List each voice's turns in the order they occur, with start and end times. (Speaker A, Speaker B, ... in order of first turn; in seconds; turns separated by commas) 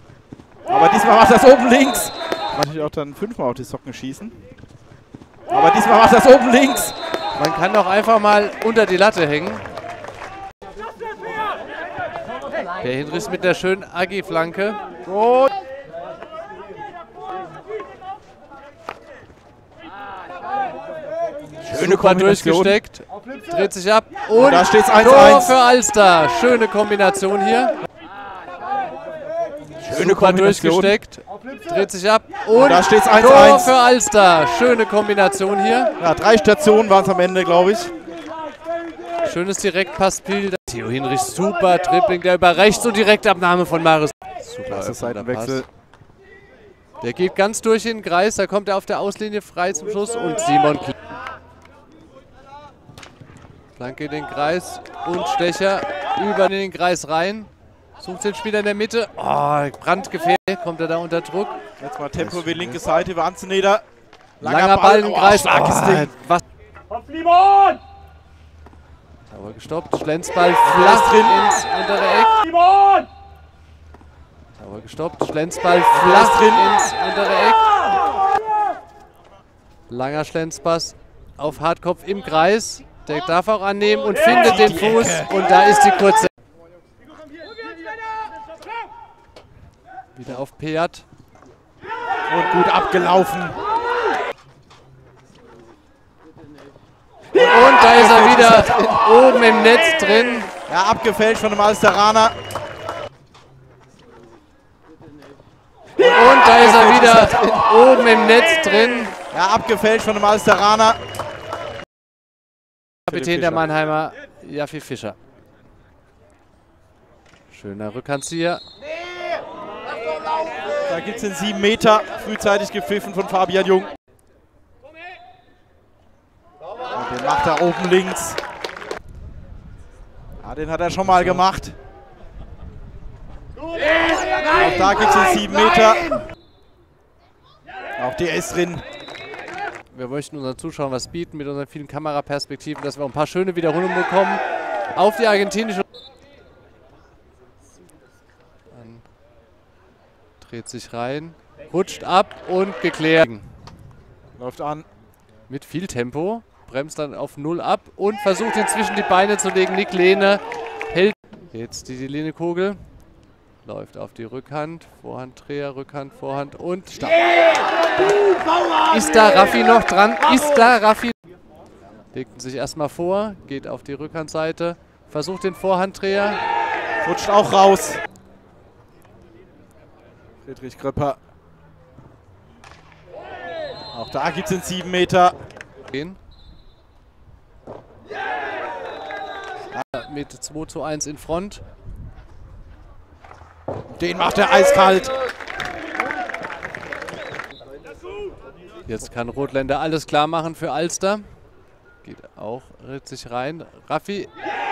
Speaker A: 0.7-4.4, Speaker A: 5.5-7.0, Speaker B: 7.4-9.7, Speaker B: 12.8-14.8, Speaker A: 15.1-15.5, Speaker B: 21.6-27.8, Speaker A: 21.7-22.8, Speaker A: 24.3-25.6, Speaker B: 29.8-35.9, Speaker A: 29.9-31.0, Speaker A: 32.5-33.7, Speaker A: 36.0-37.9, Speaker B: 39.2-45.6, Speaker A: 44.7-45.7, Speaker B: 47.0-50.9, Speaker B: 53.8-61.6, Speaker A: 61.8-63.8, Speaker B: 62.2-62.8, Speaker A: 64.4-66.2, Speaker B: 64.4-66.4, Speaker B: 69.3-72.4, Speaker A: 70.6-71.5, Speaker B: 74.6-77.7, Speaker A: 75.9-76.7, Speaker B: 79.9-86.3, Speaker A: 84.2-85.3, Speaker B: 90.2-91.0, Speaker A: 92.3-93.6, Speaker A: 97.3-98.9, Speaker B: 97.3-100.5, Speaker A: 100.7-102.4, Speaker B: 106.0-109.2, Speaker A: 106.2-107.5, Speaker A: 109.3-111.0, Speaker B: 113.1-115.2, Speaker A: 113.1-113.7, Speaker B: 117.5-118.6, Speaker A: 120.9-123.9, Speaker A: 126.9-128.4, Speaker A: 130.4-131.8, Speaker B: 131.1-131.4, Speaker A: 134.5-136.2, Speaker A: 138.0-138.8, Speaker B: 139.9-144.4, Speaker B: 144.9-145.9, Speaker B: 148.7-149.1, Speaker B: 150.4-153.5, Speaker A: 154.4-154.9, Speaker B: 155.5-162.8, Speaker B: 163.7-167.2, Speaker B: 168.9-171.2, Speaker B: 172.1-176.4, Speaker A: 177.0-178.0, Speaker A: 180.4-181.2, Speaker A: 183.9-185.3, Speaker B: 185.9-186.2, Speaker B: 189.8-191.6, Speaker A: 193.9-195.1, Speaker B: 198.9-201.3, Speaker B: 202.0-204.3